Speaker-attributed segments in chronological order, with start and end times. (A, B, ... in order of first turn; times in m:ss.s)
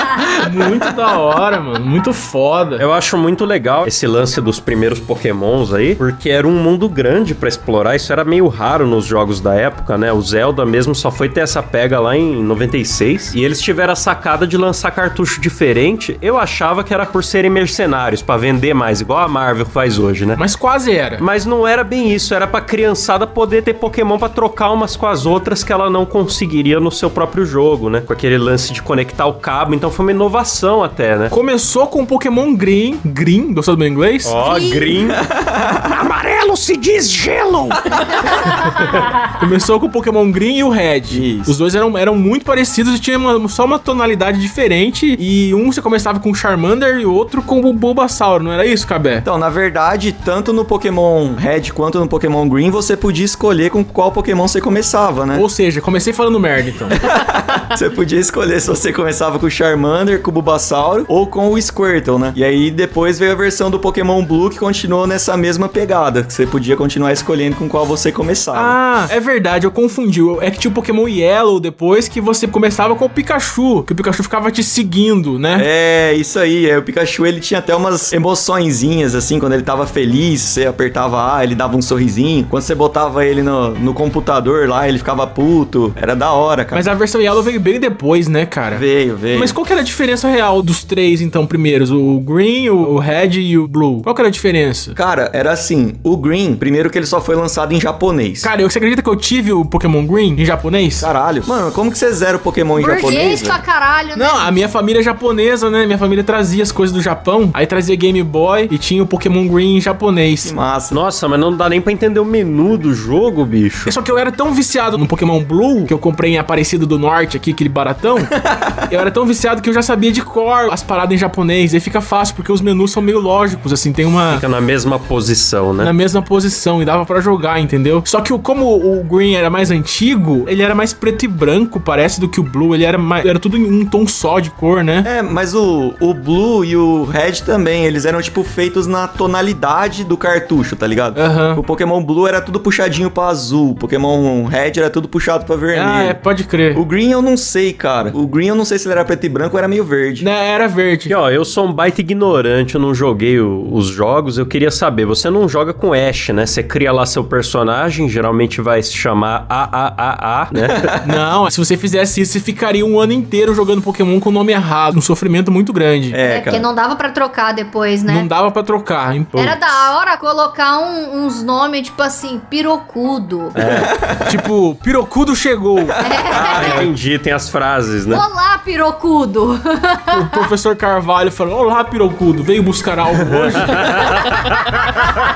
0:00.3-0:02.8 A
0:02.8-0:20.4 B
0:20.4-0:21.2 A
0:21.2-0:31.3 B
0:31.3-0:34.3 A
0:34.2-0:35.2 B
0:34.4-0:35.0 C
0:35.4-0:35.8 D
0:35.9-0:37.8 B
0:39.4-0:49.2 A
0:41.1-0:41.5 D
0:49.2-0:55.4 D
0:55.3-0:57.0 A
0:57.0-1:08.8 D
1:08.5-1:15.7 A
1:15.5-1:26.8 D
1:26.7-1:35.0 A
1:28.7-1:29.6 D
1:34.9-1:38.5 D
1:38.4-1:41.1 A
1:41.0-1:43.6 D
1:42.8-1:44.5 C
1:44.2-1:50.5 A
1:50.4-1:51.0 D
1:50.9-1:53.9 B
1:53.8-1:58.3 A
1:58.4-1:58.8 D
1:58.9-2:04.4 A
2:04.3-2:05.9 B
2:05.8-2:15.1 A
2:15.0-2:26.2 D
2:21.1-2:21.6 A
2:25.7-2:26.8 A
2:26.7-2:30.3 D
2:30.2-2:31.1 A
2:31.1-2:40.9 B
2:40.6-2:41.1 D
2:41.0-2:46.2 A
2:46.1-2:46.7 D
2:46.2-2:48.3 C
2:48.1-2:49.9 A
2:49.4-2:53.5 C
2:53.6-2:53.9 B
2:53.6-2:54.4 D
2:54.2-2:56.0 A
2:56.0-2:56.9 C
2:56.1-2:56.9 D
2:56.3-2:58.2 B
2:58.1-3:00.4 C
3:00.1-3:04.2 A
3:03.2-3:04.4 B